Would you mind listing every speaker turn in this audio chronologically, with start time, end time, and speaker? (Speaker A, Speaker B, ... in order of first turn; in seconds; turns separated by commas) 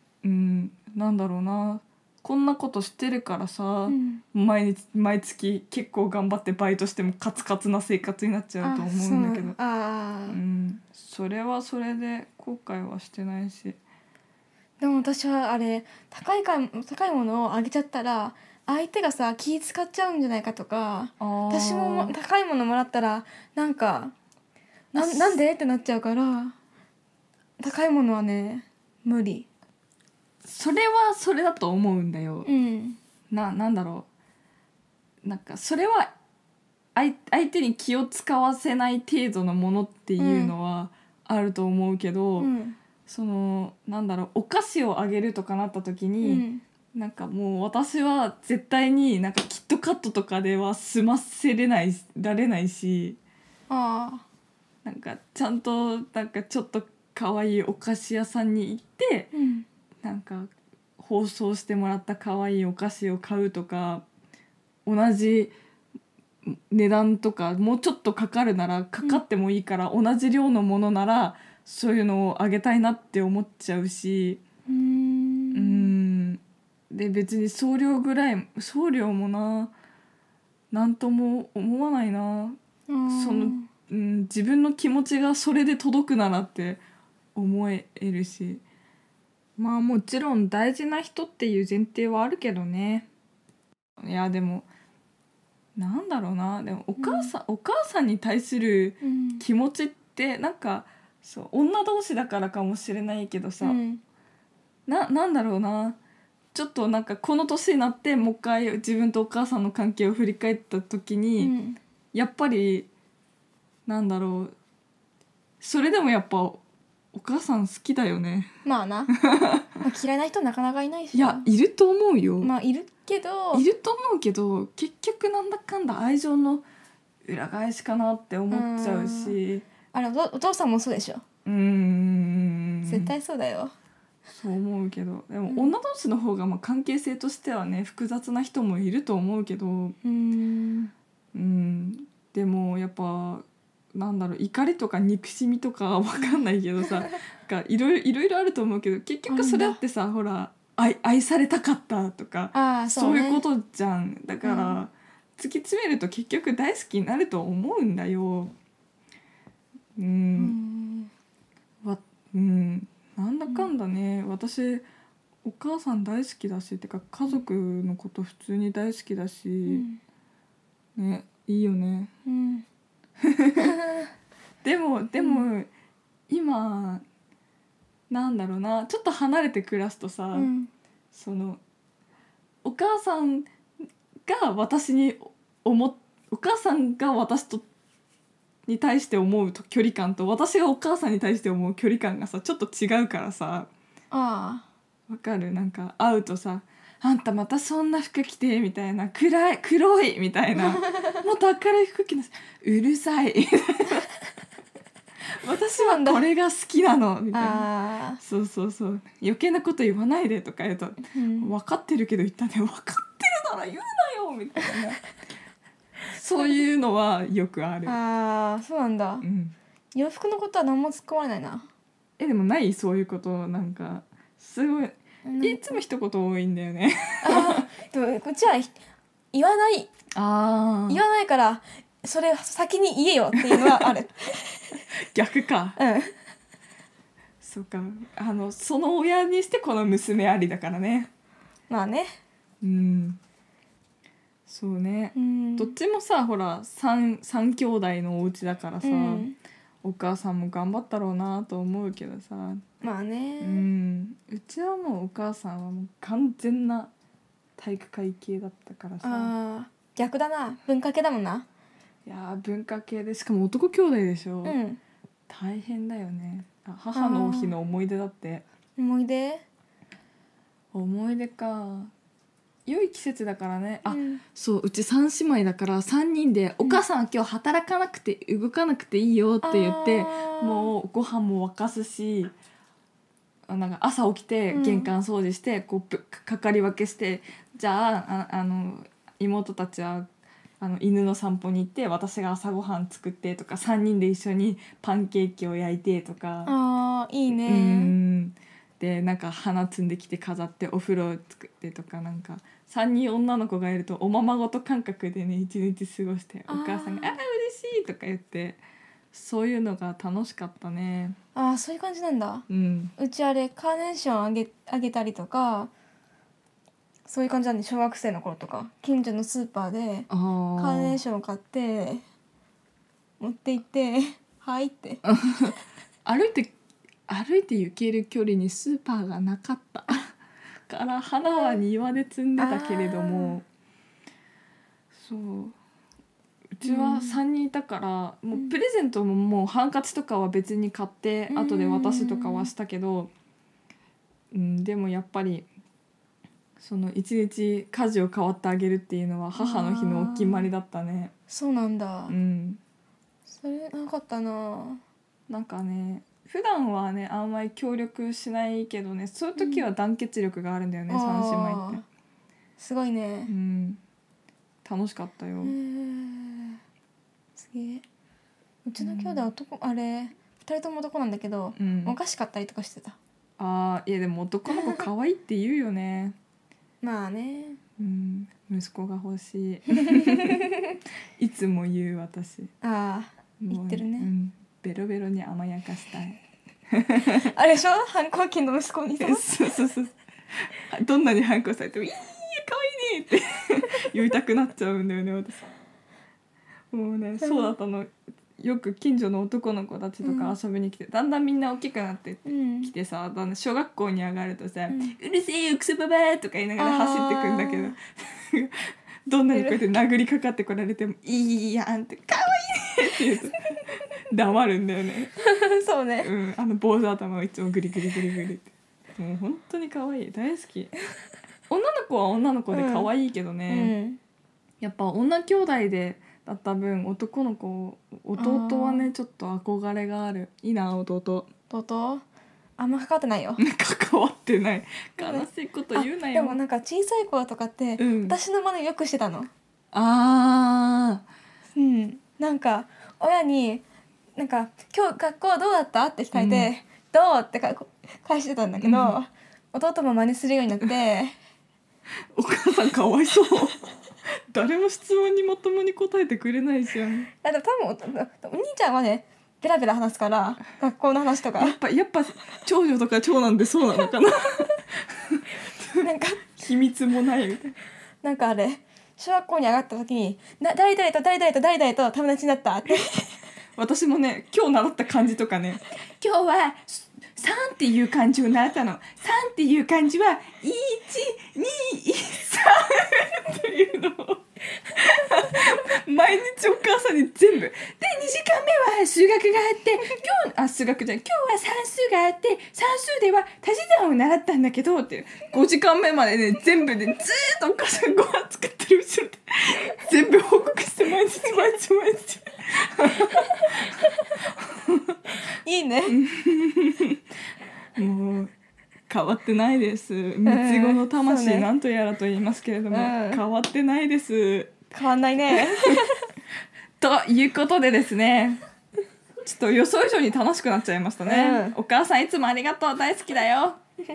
Speaker A: 0.2-9.6, Speaker B: 3.9-4.2, Speaker B: 8.6-10.4, Speaker A: 10.3-13.8, Speaker B: 14.8-24.1, Speaker A: 21.2-22.1, Speaker A: 24.9-25.4, Speaker B: 24.9-26.5, Speaker B: 27.6-29.5, Speaker A: 30.4-32.5, Speaker B: 32.5-33.0, Speaker A: 33.3-34.1, Speaker A: 35.2-36.1, Speaker A: 36.9-42.5, Speaker B: 40.2-40.5, Speaker B: 42.4-42.8, Speaker A: 43.1-53.2, Speaker B: 46.2-46.6, Speaker B: 53.7-54.2, Speaker A: 54.8-59.3, Speaker B: 59.3-59.6, Speaker A: 60.0-64.0, Speaker A: 64.8-65.5, Speaker A: 66.4-74.4, Speaker B: 74.7-75.9, Speaker A: 75.5-79.7, Speaker A: 80.7-86.8, Speaker B: 82.9-83.7, Speaker A: 87.3-88.6, Speaker A: 89.6-93.1, Speaker A: 94.0-94.7, Speaker A: 95.8-103.8, Speaker B: 97.0-97.3, Speaker B: 99.0-99.4, Speaker B: 103.6-104.0, Speaker A: 104.9-106.0, Speaker A: 106.5-111.5, Speaker B: 111.4-111.8, Speaker A: 112.1-112.9, Speaker A: 113.8-114.5, Speaker A: 115.6-118.5, Speaker B: 118.6-119.1, Speaker A: 119.1-119.7, Speaker B: 119.8-121.4, Speaker A: 121.1-122.5, Speaker B: 122.4-123.6, Speaker A: 123.5-126.6, Speaker A: 127.2-129.6, Speaker B: 128.5-129.4, Speaker B: 129.9-131.2, Speaker A: 131.4-133.1, Speaker B: 132.8-133.7, Speaker A: 134.3-139.9, Speaker B: 135.5-135.8, Speaker B: 140.0-140.9, Speaker A: 141.3-158.5, Speaker B: 149.3-149.8, Speaker B: 152.5-153.4, Speaker B: 154.4-154.8, Speaker A: 159.9-160.6, Speaker B: 160.3-161.1, Speaker A: 161.8-164.8, Speaker A: 165.4-169.8, Speaker B: 169.7-170.0, Speaker A: 171.0-172.1, Speaker B: 172.2-172.6, Speaker A: 173.2-173.7, Speaker B: 173.6-174.0, Speaker A: 174.6-175.7, Speaker B: 175.2-175.4, Speaker A: 176.3-177.0, Speaker A: 178.1-180.5, Speaker B: 180.3-180.7, Speaker A: 181.1-181.6, Speaker A: 182.6-183.5, Speaker A: 184.2-187.6, Speaker A: 188.7-193.7, Speaker B: 194.1-194.6, Speaker A: 195.1-204.1, Speaker A: 205.4-207.7, Speaker B: 205.8-206.2, Speaker B: 207.3-208.2, Speaker A: 208.2-215.0, Speaker B: 211.1-211.5, Speaker A: 216.1-218.0, Speaker B: 217.9-219.2, Speaker A: 219.2-219.5, Speaker B: 219.9-221.7, Speaker A: 222.2-227.7, Speaker B: 225.2-225.8, Speaker B: 227.2-228.8, Speaker B: 229.3-229.9, Speaker A: 230.1-231.0, Speaker B: 230.9-234.7, Speaker A: 233.3-234.0, Speaker A: 235.1-235.8, Speaker B: 235.8-236.1, Speaker A: 237.4-241.1, Speaker B: 241.7-242.2, Speaker A: 242.6-243.2, Speaker A: 244.4-249.3, Speaker B: 245.1-245.8, Speaker B: 248.8-249.4, Speaker A: 249.8-252.6, Speaker B: 252.8-253.7, Speaker A: 253.4-256.9, Speaker A: 257.6-259.3, Speaker B: 259.0-261.4, Speaker A: 262.1-264.6, Speaker B: 264.4-264.8, Speaker A: 265.3-268.4, Speaker B: 266.9-267.5, Speaker B: 268.8-269.4, Speaker A: 270.7-271.9, Speaker A: 272.6-282.3, Speaker B: 273.9-274.2, Speaker B: 279.4-280.7, Speaker A: 283.5-290.1, Speaker B: 284.5-284.9, Speaker A: 290.6-296.5, Speaker B: 296.4-297.9, Speaker A: 297.4-308.6, Speaker B: 306.5-307.2, Speaker A: 309.1-311.2, Speaker B: 311.4-312.4, Speaker A: 312.5-312.9, Speaker B: 313.0-315.7, Speaker B: 317.1-322.0, Speaker A: 320.1-321.0, Speaker B: 323.2-325.0, Speaker A: 325.0-326.5, Speaker A: 327.1-330.1, Speaker A: 330.7-333.4, Speaker B: 331.3-331.6, Speaker B: 332.4-333.4, Speaker A: 334.9-335.5, Speaker A: 336.6-343.1, Speaker B: 336.6-337.2, Speaker B: 341.3-342.5, Speaker A: 344.3-345.5, Speaker A: 346.6-351.1, Speaker B: 349.4-350.5, Speaker B: 351.3-352.1, Speaker A: 352.1-352.6, Speaker B: 353.3-354.8, Speaker A: 355.3-361.8, Speaker B: 359.4-359.7, Speaker B: 360.9-361.8, Speaker B: 362.6-363.3, Speaker A: 363.2-363.8, Speaker A: 364.6-365.6, Speaker B: 365.4-366.6, Speaker B: 367.4-367.8, Speaker B: 368.6-373.0, Speaker A: 368.8-369.3, Speaker A: 371.6-372.0, Speaker A: 373.4-376.1, Speaker B: 374.5-374.8, Speaker B: 376.8-377.6, Speaker A: 377.8-380.5, Speaker B: 379.9-380.4, Speaker A: 381.2-382.5, Speaker B: 382.6-384.1, Speaker A: 383.4-386.2, Speaker A: 386.7-387.2, Speaker B: 387.1-389.3, Speaker A: 389.0-389.9, Speaker A: 390.5-395.5, Speaker A: 396.7-413.4, Speaker B: 397.2-397.5, Speaker B: 400.0-400.4, Speaker B: 402.2-402.7, Speaker B: 406.6-407.8, Speaker B: 409.3-409.6, Speaker A: 414.1-415.1, Speaker B: 415.2-416.1, Speaker A: 416.0-420.7, Speaker A: 421.5-423.7, Speaker B: 422.5-422.9, Speaker B: 423.5-424.0, Speaker A: 424.6-431.3, Speaker B: 428.2-428.9, Speaker B: 431.5-432.0, Speaker B: 432.6-433.4, Speaker A: 433.4-436.4, Speaker B: 435.0-439.3, Speaker A: 437.8-438.2, Speaker A: 439.7-441.0, Speaker B: 441.5-443.6, Speaker B: 444.1-451.1, Speaker A: 446.1-446.5, Speaker A: 448.6-449.0, Speaker A: 452.1-453.6, Speaker A: 454.3-457.1, Speaker B: 457.2-461.6, Speaker A: 461.4-467.6, Speaker B: 465.8-466.2, Speaker B: 468.0-473.2, Speaker A: 473.6-503.6, Speaker A: 504.4-505.0, Speaker B: 505.4-506.0, Speaker A: 505.9-507.0, Speaker A: 507.8-508.3, Speaker A: 508.9-514.6, Speaker B: 510.2-511.4, Speaker B: 512.7-513.2, Speaker B: 514.7-516.1, Speaker A: 515.3-515.8, Speaker A: 516.8-518.4, Speaker A: 519.2-523.6, Speaker B: 521.0-521.5